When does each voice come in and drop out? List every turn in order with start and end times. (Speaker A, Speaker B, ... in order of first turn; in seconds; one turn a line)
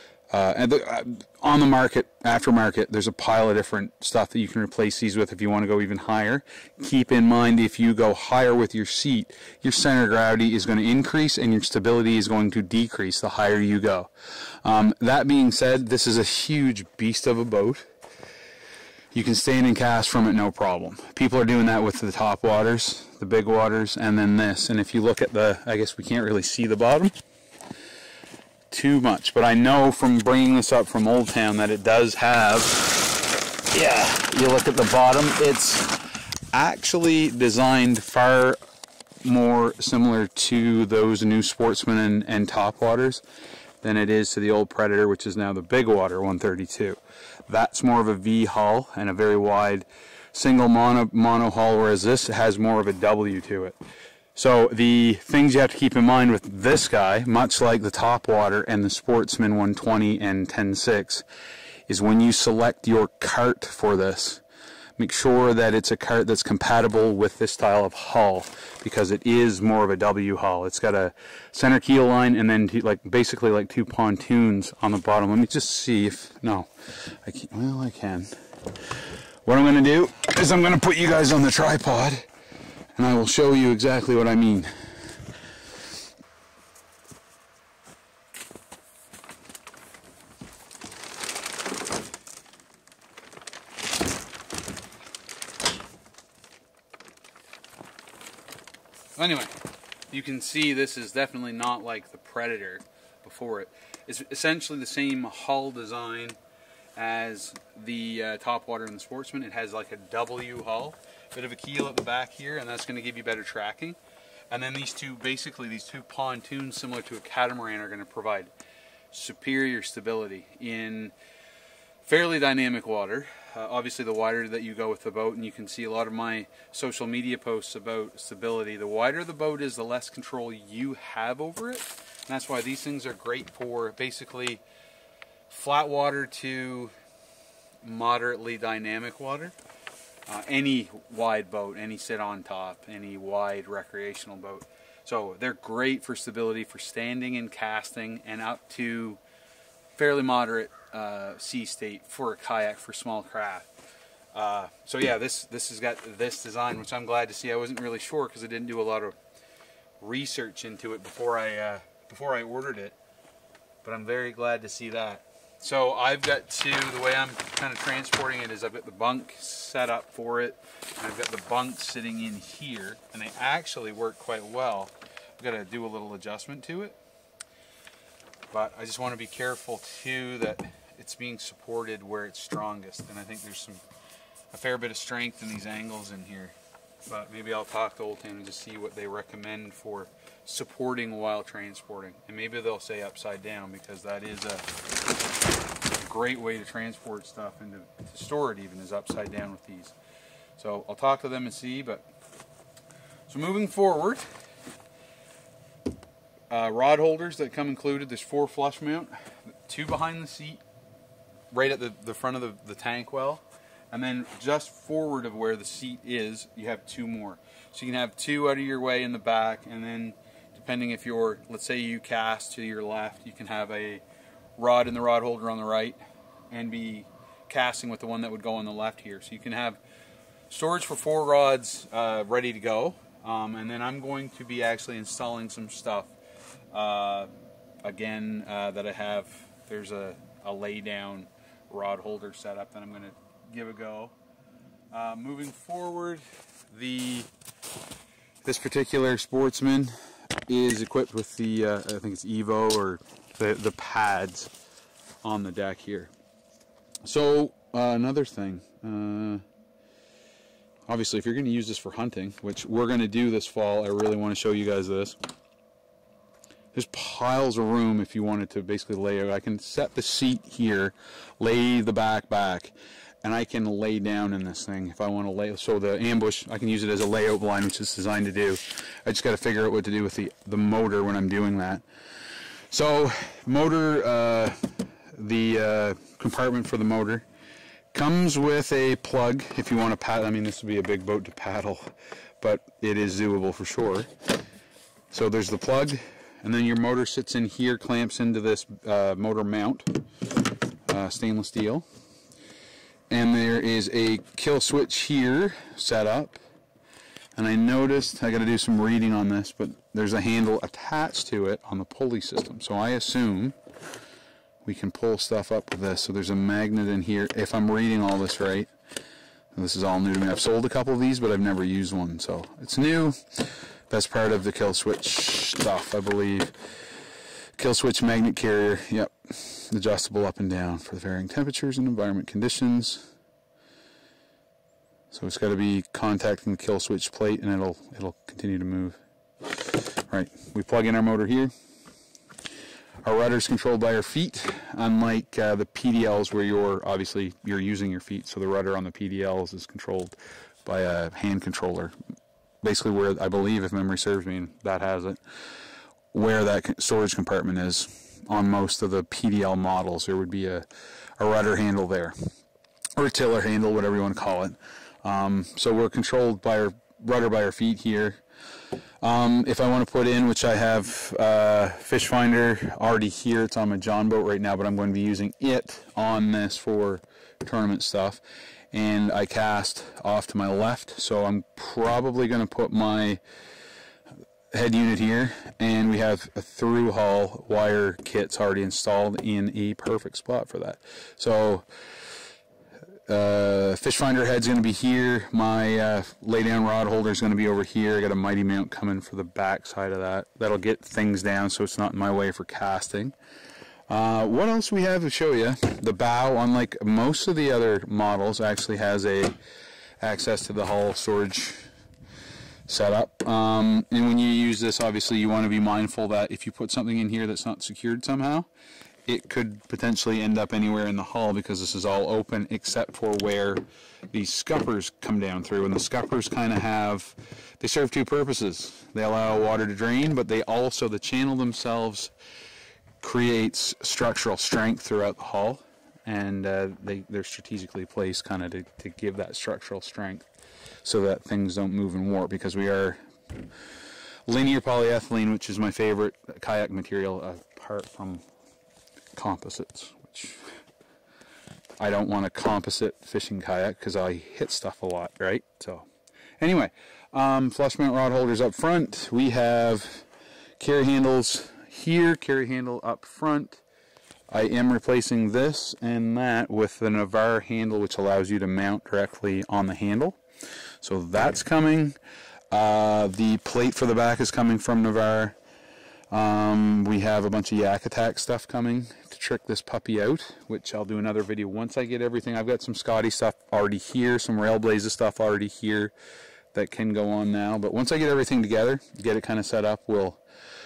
Speaker A: 0.3-14.1
Speaker A: 14.6-17.9
Speaker A: 19.1-27.1
Speaker A: 28.7-33.0
Speaker A: 33.7-38.6
Speaker A: 39.2-43.2
Speaker A: 43.8-53.8
Speaker A: 54.3-61.2
Speaker A: 61.9-64.4
Speaker A: 65.0-78.4
Speaker A: 79.4-82.2
Speaker A: 83.0-84.7
Speaker A: 99.2-99.5
Speaker A: 100.1-106.4
Speaker A: 107.0-114.0
Speaker A: 114.5-118.5
Speaker A: 119.1-121.1
Speaker A: 122.0-134.6
Speaker A: 135.5-136.9
Speaker A: 137.8-139.5
Speaker A: 140.3-149.2
Speaker A: 149.9-153.7
Speaker A: 154.3-159.2
Speaker A: 160.0-162.9
Speaker A: 163.8-177.0
Speaker A: 178.5-183.8
Speaker A: 184.5-186.5
Speaker A: 187.1-194.7
Speaker A: 195.9-199.9
Speaker A: 200.6-202.0
Speaker A: 203.3-204.2
Speaker A: 206.5-209.1
Speaker A: 209.7-210.6
Speaker A: 211.5-224.0
Speaker A: 224.6-229.8
Speaker A: 230.5-236.1
Speaker A: 236.7-237.3
Speaker A: 237.8-244.1
Speaker A: 244.9-247.3
Speaker A: 248.4-249.9
Speaker A: 250.5-254.5
Speaker A: 255.2-256.1
Speaker A: 257.0-259.4
Speaker A: 260.9-265.2
Speaker A: 266.7-281.8
Speaker A: 282.7-287.2
Speaker A: 287.9-291.9
Speaker A: 292.4-294.1
Speaker A: 295.1-300.0
Speaker A: 300.9-301.9
Speaker A: 303.1-306.4
Speaker A: 307.4-313.6
Speaker A: 314.6-318.7
Speaker A: 319.5-326.5
Speaker A: 327.6-333.1
Speaker A: 335.1-339.0
Speaker A: 339.6-341.5
Speaker A: 343.0-351.9
Speaker A: 352.6-355.2
Speaker A: 356.1-360.7
Speaker A: 361.2-362.1
Speaker A: 363.0-368.2
Speaker A: 369.0-378.2
Speaker A: 378.7-383.2
Speaker A: 384.5-391.7
Speaker A: 393.1-403.1
Speaker A: 403.9-409.4
Speaker A: 410.0-411.7
Speaker A: 412.7-418.5
Speaker A: 419.1-432.1
Speaker A: 433.0-440.3
Speaker A: 440.8-443.0
Speaker A: 444.3-448.2
Speaker A: 449.1-450.4
Speaker A: 451.8-455.9
Speaker A: 456.4-460.1
Speaker A: 460.6-463.6
Speaker A: 464.3-470.2
Speaker A: 470.8-472.0
Speaker A: 472.5-475.4
Speaker A: 476.1-485.9
Speaker A: 486.5-490.2